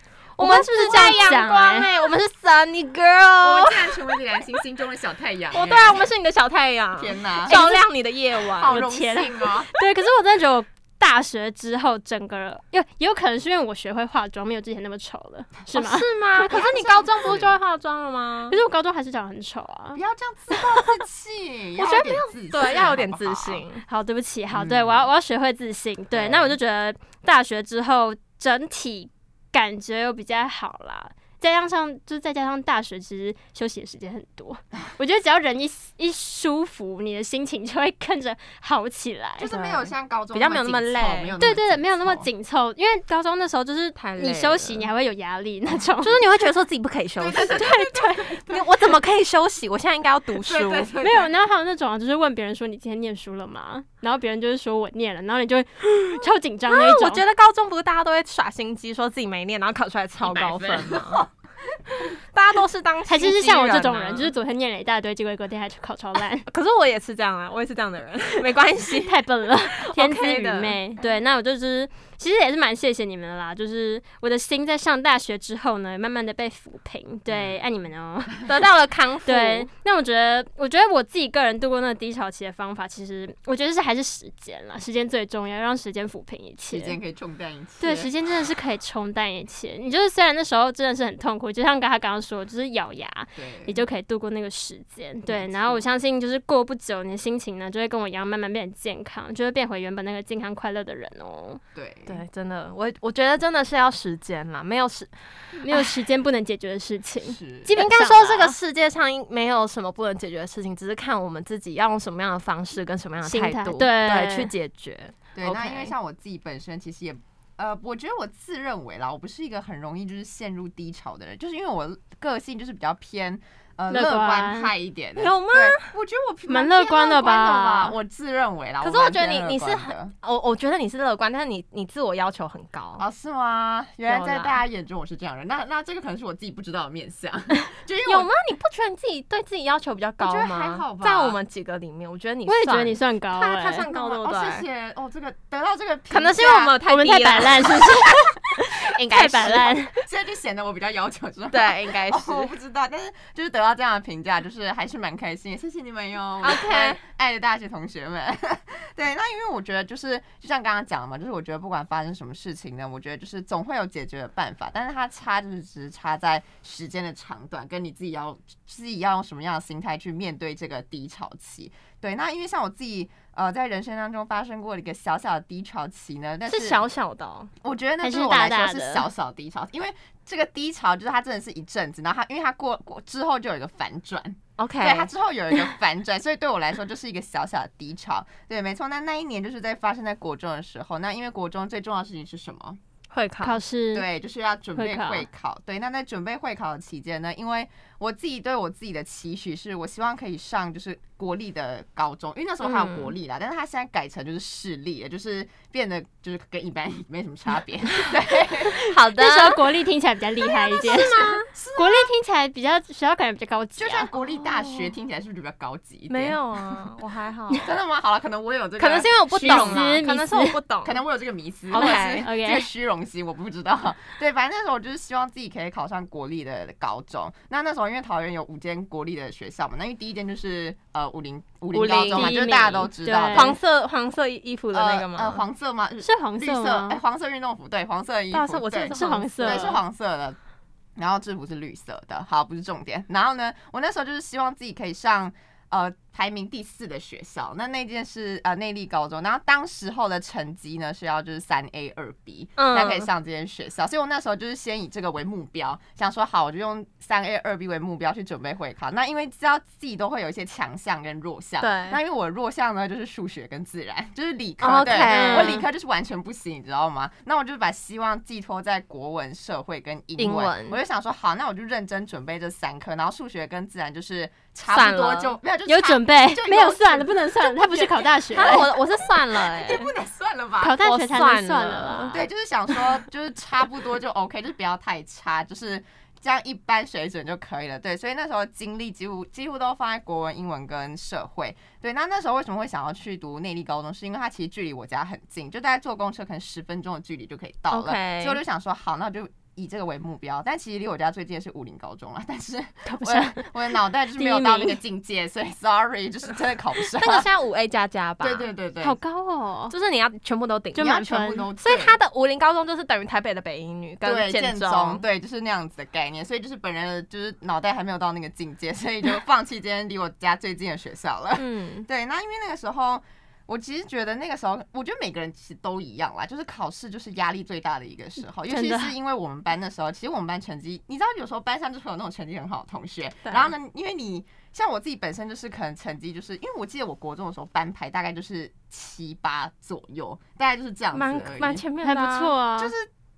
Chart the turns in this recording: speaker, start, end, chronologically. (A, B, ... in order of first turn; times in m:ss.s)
0:00.4-0:04.2 A
0:00.4-0:01.9 B
0:03.4-0:06.0 C
0:05.5-0:08.8 A
0:07.0-0:07.6 C
0:07.4-0:07.8 B
0:08.5-0:09.7 C
0:08.7-0:16.5 B
0:15.7-0:18.6 A
0:16.4-0:17.6 C
0:18.5-0:20.0 B
0:20.0-0:23.6 C
0:21.8-0:23.8 A
0:23.9-0:39.5 B
0:24.5-0:25.1 C
0:26.1-0:26.6 C
0:39.4-0:42.3 C
0:39.5-0:41.4 A
0:41.4-0:46.2 B
0:44.0-0:44.9 A
0:46.0-0:47.6 A
0:47.2-0:48.7 C
0:47.4-0:48.3 B
0:48.5-0:50.9 A
0:50.3-0:51.3 C
0:51.0-0:57.2 B
0:56.7-1:01.3 A
1:00.2-1:01.3 C
1:02.0-1:04.3 A
1:03.1-1:06.4 B
1:06.5-1:09.2 A
1:09.0-1:18.4 B
1:09.8-1:10.8 A
1:17.3-1:17.6 C
1:18.4-1:19.7 A
1:19.3-1:27.0 B
1:26.7-1:28.1 C
1:27.8-1:41.6 B
1:33.4-1:33.8 C
1:35.3-1:35.8 C
1:41.8-1:42.2 C
1:42.1-1:45.1 A
1:45.6-1:48.6 B
1:47.2-1:47.8 C
1:47.7-1:55.9 A
1:53.2-1:54.5 B
1:55.4-2:10.1 C
2:03.9-2:04.7 B
2:05.2-2:05.9 A
2:06.5-2:08.0 B
2:08.8-2:13.0 A
2:13.0-2:18.3 C
2:14.1-2:14.6 A
2:18.1-2:24.7 A
2:20.2-2:21.4 C
2:22.5-2:23.9 B
2:23.9-2:26.8 C
2:26.1-2:27.9 A
2:26.8-2:29.9 B
2:28.8-2:29.7 A
2:30.0-2:56.8 C
2:31.5-2:32.5 A
2:36.4-2:37.0 A
2:56.5-2:57.5 A
2:57.6-3:12.8 C
2:58.0-2:59.0 B
3:04.6-3:05.1 A
3:13.1-3:13.6 A
3:13.4-3:14.1 B
3:13.9-3:28.8 C
3:14.8-3:15.3 B
3:22.6-3:23.1 A
3:28.8-3:29.6 A
3:28.8-3:34.1 B
3:30.8-3:31.5 A
3:30.8-3:32.1 C
3:33.8-3:36.8 C
3:34.4-3:34.9 A
3:36.1-3:37.7 A
3:37.6-3:39.8 C
3:38.8-3:41.0 A
3:39.4-3:40.6 B
3:40.8-3:53.6 C
3:41.7-3:42.3 A
3:41.8-3:42.7 B
3:51.7-3:55.4 A
3:52.1-3:53.6 B
3:54.7-4:00.4 C
3:56.0-3:57.0 B
3:58.3-3:59.8 A
3:58.9-3:59.8 B
4:01.0-4:40.8 C
4:12.6-4:13.1 A
4:21.6-4:22.0 A
4:24.6-4:25.6 A
4:25.1-4:25.6 B
4:30.2-4:30.8 A
4:34.7-4:35.4 A
4:35.7-4:38.7 B
4:38.3-4:39.9 A
4:40.6-4:42.2 B
4:40.8-4:42.2 A
4:42.1-5:07.3 C
4:57.7-4:58.4 A
5:02.9-5:03.5 B
5:04.2-5:04.8 B
5:07.0-5:08.5 A
5:08.2-5:09.0 C
5:08.8-5:09.7 B
5:09.7-5:11.0 A
5:10.8-5:11.5 B
5:10.8-5:12.0 C
5:11.6-5:15.0 A
5:14.0-5:41.6 C
5:21.4-5:21.9 A
5:28.5-5:28.9 B
5:40.9-5:42.3 A
5:41.8-5:42.7 B
5:42.6-5:42.9 C